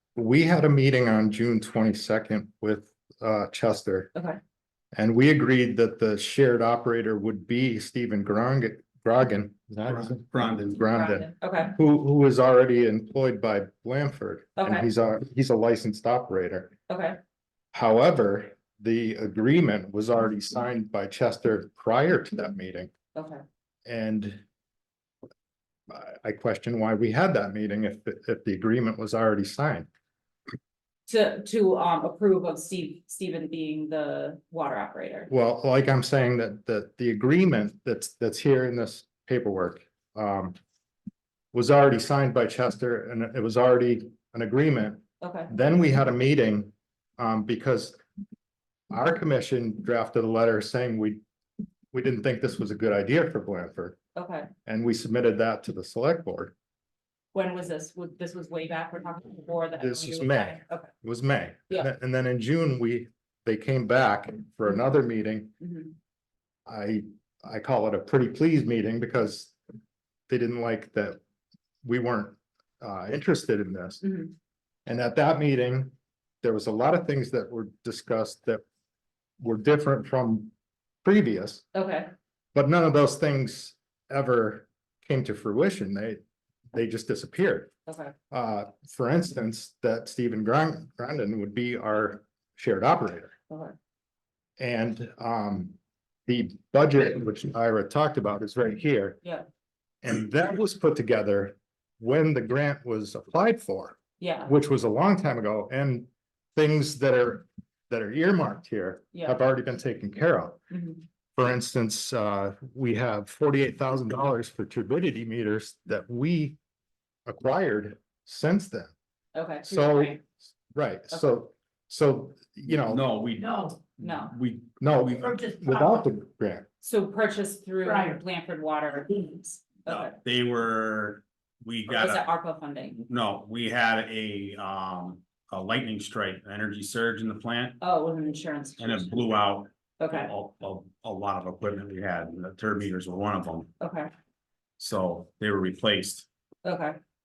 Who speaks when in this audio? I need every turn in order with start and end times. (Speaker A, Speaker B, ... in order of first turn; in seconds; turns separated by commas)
Speaker A: 0.2-4.1, Speaker A: 4.9-16.7, Speaker B: 9.9-10.8, Speaker C: 10.8-11.8, Speaker C: 14.6-14.9, Speaker C: 16.9-17.2, Speaker A: 17.7-22.9, Speaker C: 23.1-23.4, Speaker A: 23.9-24.4, Speaker A: 25.9-29.9, Speaker C: 31.1-35.3, Speaker A: 35.3-40.6, Speaker A: 41.5-48.0, Speaker C: 45.2-45.5, Speaker A: 48.9-51.2, Speaker A: 51.9-54.0, Speaker C: 54.1-54.5, Speaker A: 54.6-56.5, Speaker C: 57.3-60.9, Speaker A: 59.8-65.5, Speaker C: 65.6-65.9, Speaker A: 66.7-69.6, Speaker A: 70.3-71.2, Speaker A: 71.8-74.0, Speaker C: 74.0-74.3, Speaker A: 74.9-78.6, Speaker A: 79.4-80.5, Speaker A: 81.0-81.7, Speaker C: 81.7-82.1, Speaker A: 82.5-86.2, Speaker A: 86.7-87.7, Speaker C: 87.9-88.1, Speaker A: 88.3-93.3, Speaker C: 93.5-93.8, Speaker A: 94.6-99.2, Speaker A: 100.0-110.6, Speaker C: 104.2-104.5, Speaker C: 110.7-111.0, Speaker A: 111.4-116.6, Speaker A: 117.3-118.9, Speaker C: 119.3-120.2, Speaker A: 119.6-120.2, Speaker A: 120.7-123.0, Speaker B: 122.9-124.8, Speaker C: 124.0-124.3, Speaker A: 124.8-126.7, Speaker C: 126.8-130.2, Speaker B: 129.9-132.2, Speaker C: 131.9-133.0, Speaker B: 132.9-137.8, Speaker C: 137.8-139.3, Speaker B: 138.8-143.7, Speaker C: 140.0-140.3, Speaker C: 143.8-144.1, Speaker B: 144.8-146.3, Speaker C: 146.6-147.0